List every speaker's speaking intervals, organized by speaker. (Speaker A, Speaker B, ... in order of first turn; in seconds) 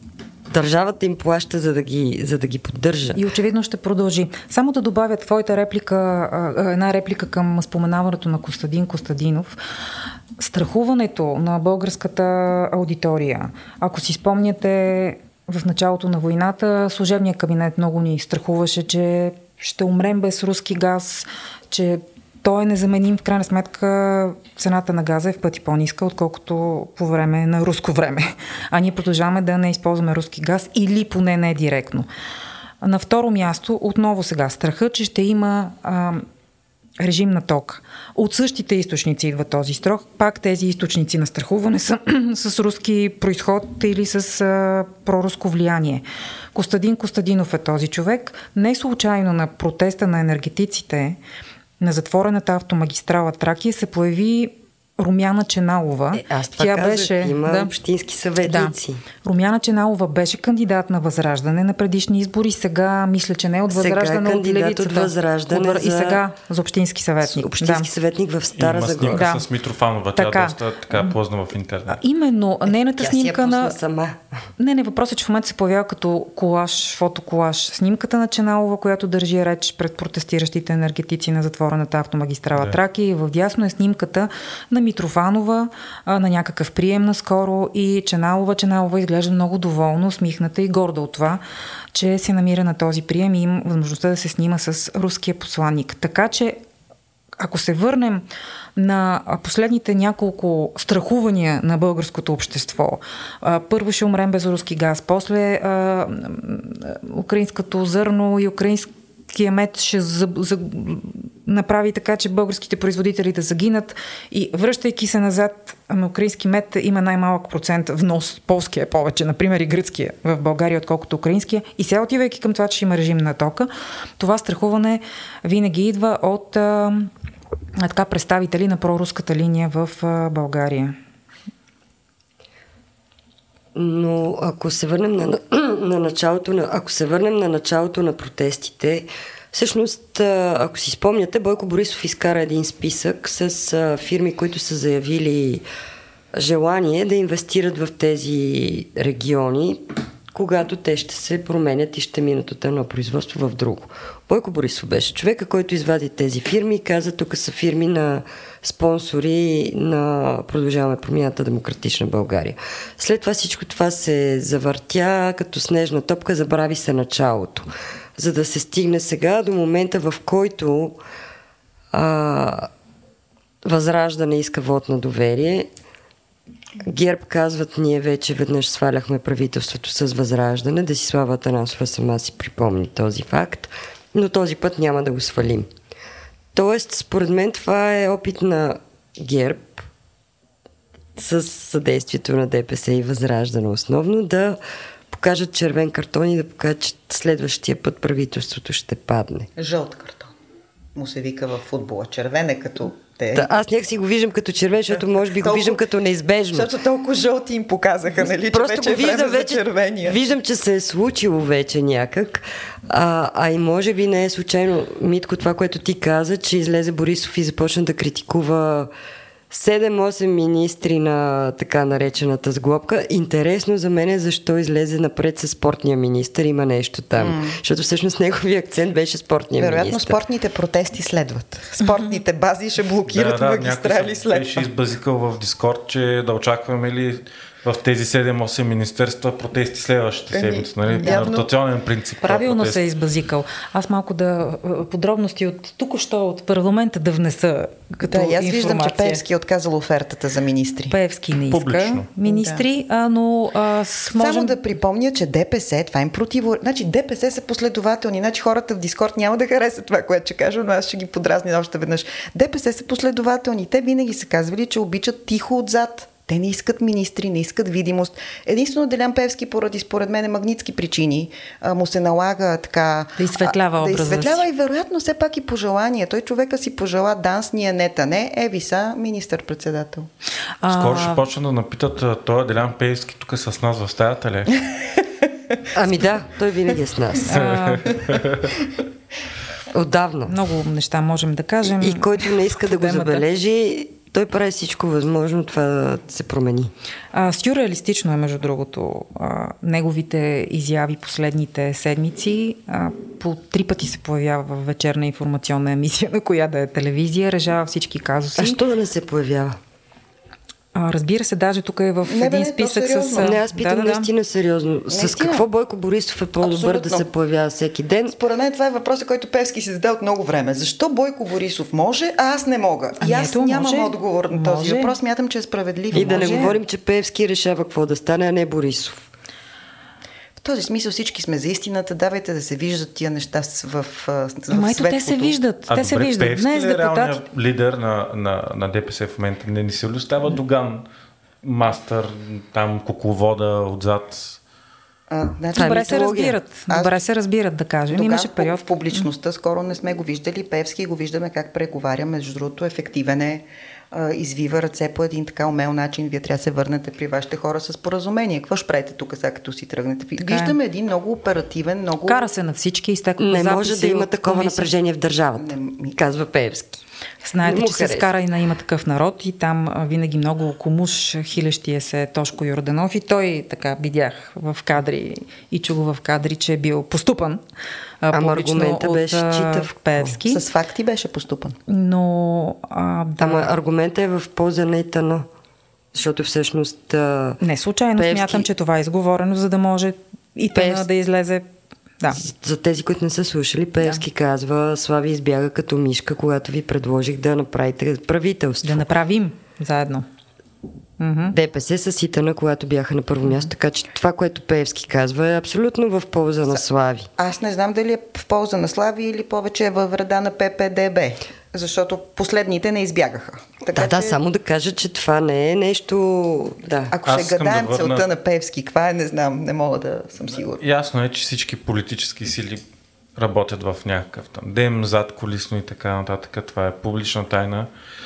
Speaker A: 0.5-3.2, 56.1-59.0, 63.7-66.2, 67.2-69.3, 72.7-74.2, 133.7-145.6, 146.3-171.0, 171.9-172.7, 173.6-175.7, 176.8-185.7, 186.5-189.8, 191.2-199.5, 203.3-206.7, 208.3-218.9, 219.5-230.2, 285.7-287.3, 289.7-290.3, 291.7-296.7, 308.4-309.6, 313.2-318.1, 325.9-329.1, 345.5-346.4, 363.2-366.8, 367.4-368.1, 378.1-380.2, 383.2-385.3, 385.9-387.4, 387.9-388.5, 390.5-390.9, 392.2-398.8, 401.3-407.1, 413.7-416.9
Speaker B: 3.1-9.6, 10.4-32.1, 32.8-36.3, 37.0-51.2, 51.8-57.7, 58.4-67.9, 69.1-69.4, 70.2-71.1, 71.9-73.8, 74.6-91.4, 91.9-96.6, 97.4-98.2, 98.8-127.1, 127.8-130.9, 242.2-249.2, 250.9-254.6, 273.2-274.4, 280.6-281.2, 287.3-288.0, 290.2-293.2, 297.1-308.6, 310.7-314.1, 323.0-324.9, 325.9-326.5, 334.5-337.2, 345.5-349.1, 360.2-360.6, 362.1-364.7, 367.2-377.4, 378.0-380.4, 381.7-383.5, 387.4-391.5, 398.6-400.1, 401.0-401.3
Speaker C: 68.5-72.0, 233.1-242.8, 251.5-252.1, 280.7-284.6, 287.2-288.7, 335.7-340.9, 341.4-344.4, 417.1-418.1, 420.6-422.6, 423.1-427.7
Speaker D: 199.6-200.3, 200.9-203.5, 204.9-205.8, 206.5-210.2, 227.2-227.6, 229.6-234.7, 240.3-241.5, 248.0-250.9, 252.2-252.6, 254.1-280.1, 312.1-313.4, 314.9-315.4, 316.4-317.1, 318.1-326.6, 330.4-335.4, 345.1-346.1, 346.7-347.0, 347.9-362.2, 365.4-366.0, 380.3-381.6, 407.2-414.2, 416.9-420.6